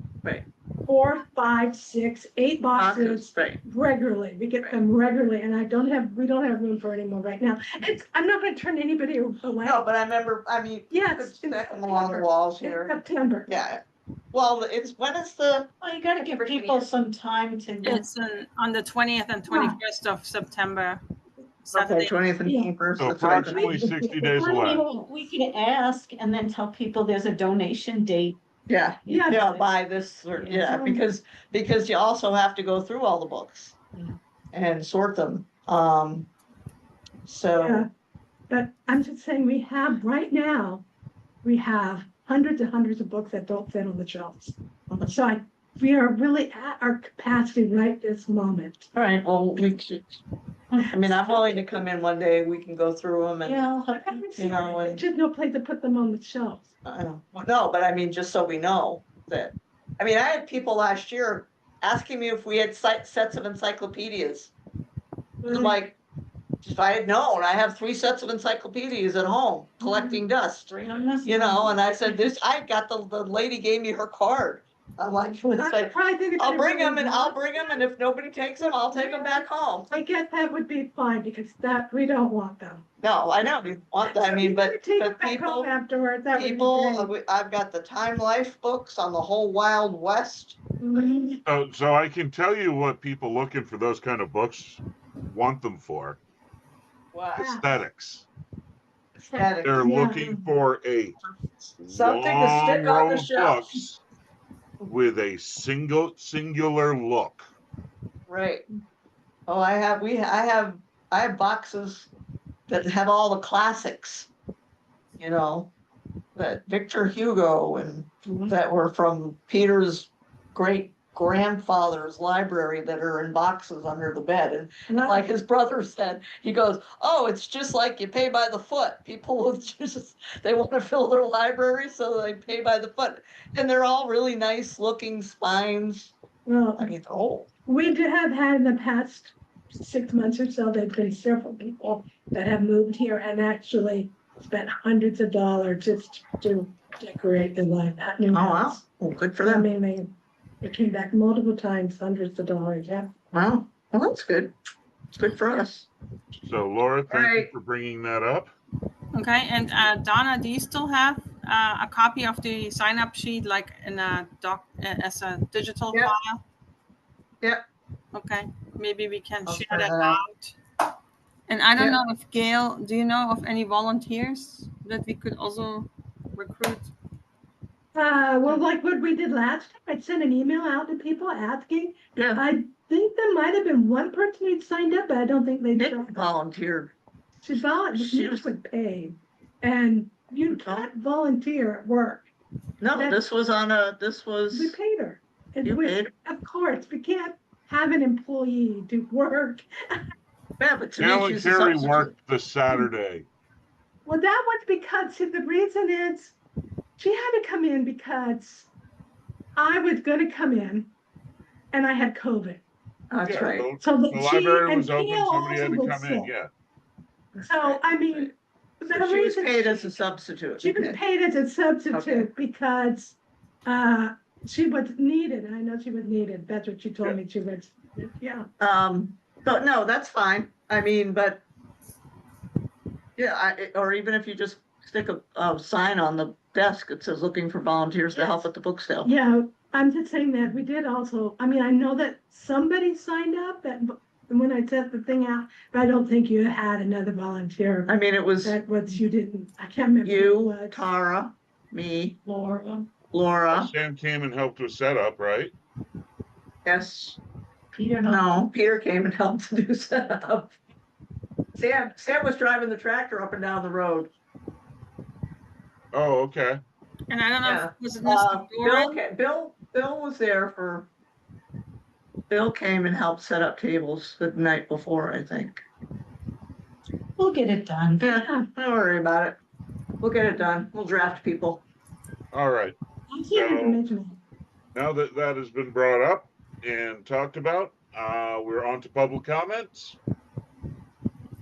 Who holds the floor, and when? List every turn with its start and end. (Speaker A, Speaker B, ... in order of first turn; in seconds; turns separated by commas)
Speaker A: 0.8-9.8, Speaker B: 2.8-3.6, Speaker B: 9.6-16.9, Speaker A: 10.9-13.5, Speaker C: 15.8-18.1, Speaker D: 17.8-21.0, Speaker A: 19.5-19.8, Speaker D: 21.6-22.1, Speaker B: 21.7-23.8, Speaker A: 22.4-22.7, Speaker E: 23.0-24.8, Speaker A: 23.5-24.9, Speaker C: 24.3-28.4, Speaker B: 28.7-33.8, Speaker A: 29.1-29.5, Speaker C: 29.2-29.6, Speaker C: 30.3-31.0, Speaker B: 34.5-36.3, Speaker B: 37.2-37.9, Speaker A: 37.6-37.9, Speaker A: 38.5-40.8, Speaker A: 41.4-48.9, Speaker B: 48.9-50.2, Speaker B: 50.8-55.0, Speaker A: 53.4-56.6, Speaker B: 56.8-64.5, Speaker A: 65.4-65.8, Speaker B: 65.5-66.0, Speaker B: 66.6-70.7, Speaker A: 69.9-70.2, Speaker C: 70.7-72.4, Speaker B: 71.2-79.9, Speaker A: 75.4-77.9, Speaker A: 78.6-82.8, Speaker B: 83.0-85.7, Speaker A: 84.0-87.1, Speaker B: 86.3-90.6, Speaker A: 90.8-91.4, Speaker E: 91.5-96.2, Speaker B: 97.1-97.5, Speaker E: 97.4-98.3, Speaker A: 97.4-97.7, Speaker B: 99.3-100.4, Speaker E: 99.6-101.2, Speaker A: 99.8-100.2, Speaker E: 101.8-104.0, Speaker B: 101.9-103.8, Speaker E: 104.8-107.5, Speaker B: 108.3-108.6, Speaker B: 109.5-112.1, Speaker B: 112.7-114.3, Speaker B: 115.2-115.7, Speaker B: 116.3-136.1, Speaker A: 124.9-125.3, Speaker A: 136.4-136.9, Speaker B: 136.8-137.5, Speaker A: 137.7-148.8, Speaker B: 148.3-149.7, Speaker A: 149.4-153.1, Speaker B: 153.3-154.5, Speaker B: 155.1-155.9, Speaker E: 156.4-158.5, Speaker B: 157.1-157.5, Speaker D: 159.1-166.4, Speaker D: 168.1-170.6, Speaker B: 169.4-170.2, Speaker D: 171.5-176.9, Speaker A: 177.9-186.2, Speaker B: 182.1-182.4, Speaker B: 185.7-186.9, Speaker A: 187.4-192.3, Speaker B: 187.9-188.5, Speaker B: 190.5-190.9, Speaker B: 192.8-194.8, Speaker A: 192.9-193.2, Speaker A: 194.5-200.0, Speaker B: 195.6-196.1, Speaker B: 200.6-202.1, Speaker E: 201.0-203.3, Speaker A: 204.0-206.3, Speaker A: 207.0-208.7, Speaker A: 209.6-210.9, Speaker A: 211.7-212.6, Speaker B: 213.1-213.7, Speaker E: 213.2-216.5, Speaker A: 213.8-216.3, Speaker B: 217.3-218.3, Speaker A: 217.4-220.0, Speaker B: 218.9-221.0, Speaker A: 220.6-228.4, Speaker B: 221.9-222.3, Speaker B: 228.6-231.4, Speaker B: 233.2-239.1, Speaker A: 238.1-238.5, Speaker A: 239.0-250.8, Speaker B: 247.8-248.6, Speaker B: 250.0-252.2, Speaker C: 252.4-252.8, Speaker B: 253.1-253.7, Speaker E: 253.5-255.5, Speaker B: 256.6-257.2, Speaker C: 257.8-258.4, Speaker B: 258.0-260.5, Speaker B: 261.6-264.1, Speaker E: 265.9-266.6, Speaker D: 267.1-269.0, Speaker B: 267.4-270.9, Speaker B: 272.3-275.6, Speaker C: 277.2-278.1, Speaker B: 278.0-279.4, Speaker A: 278.1-278.5, Speaker B: 280.0-281.6, Speaker E: 282.3-282.7, Speaker A: 283.1-284.2, Speaker E: 283.3-283.8, Speaker E: 284.7-290.0